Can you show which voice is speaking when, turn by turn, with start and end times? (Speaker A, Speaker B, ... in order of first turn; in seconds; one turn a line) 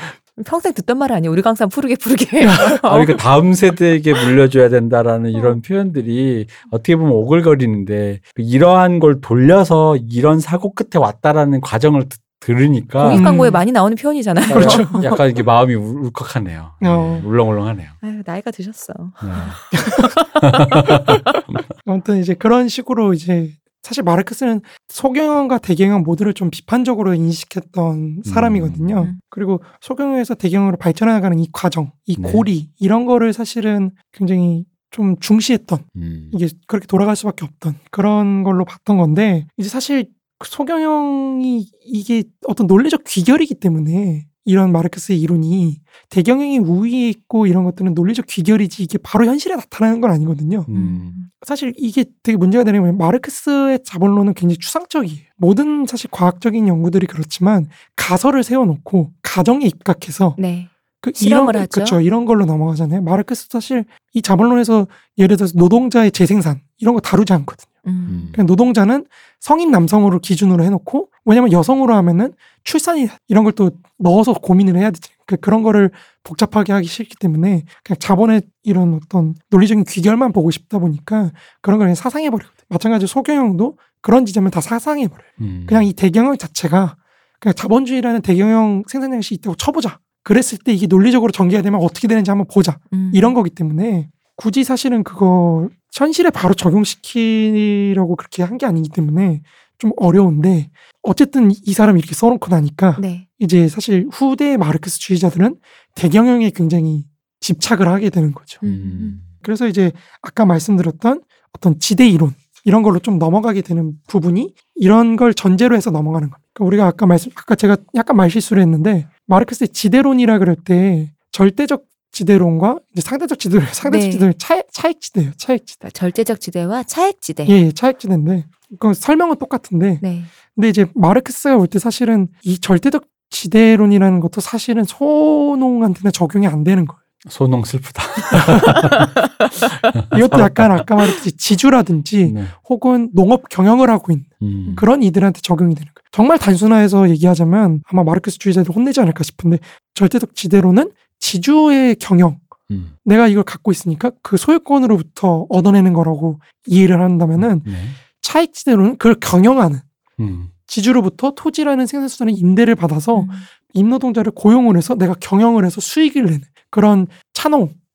Speaker A: 0.4-3.1
Speaker B: 2.4-2.8
Speaker C: 2.8-13.3
Speaker A: 13.0-15.0
Speaker B: 13.0-13.6
Speaker C: 14.5-18.0
Speaker B: 14.5-15.2
Speaker B: 16.8-17.2
Speaker A: 18.0-20.9
Speaker C: 19.2-19.6
Speaker B: 19.7-20.2
Speaker C: 20.4-21.6
Speaker B: 21.8-50.7
Speaker C: 28.2-29.1
Speaker C: 32.2-32.5
Speaker C: 35.9-36.3
Speaker C: 50.7-51.1
Speaker A: 50.7-51.3
Speaker B: 51.4-60.4
Speaker A: 60.4-62.0
Speaker B: 61.0-67.7
Speaker A: 67.8-68.3
Speaker C: 68.0-68.4
Speaker B: 68.3-108.6
Speaker C: 85.4-85.9
Speaker A: 92.9-93.3
Speaker A: 103.0-103.2
Speaker A: 108.6-109.2
Speaker C: 108.6-109.3
Speaker B: 109.4-125.8
Speaker A: 123.8-124.3
Speaker A: 125.8-127.5
Speaker B: 127.5-130.0
Speaker A: 130.0-130.3
Speaker B: 130.5-137.0
Speaker C: 137.2-139.1
Speaker C: 139.9-140.7
Speaker B: 140.1-152.4
Speaker C: 142.2-142.5
Speaker C: 144.4-144.8
Speaker B: 153.0-159.8
Speaker C: 157.4-158.0
Speaker C: 160.2-160.5
Speaker B: 160.7-167.7
Speaker A: 163.1-163.4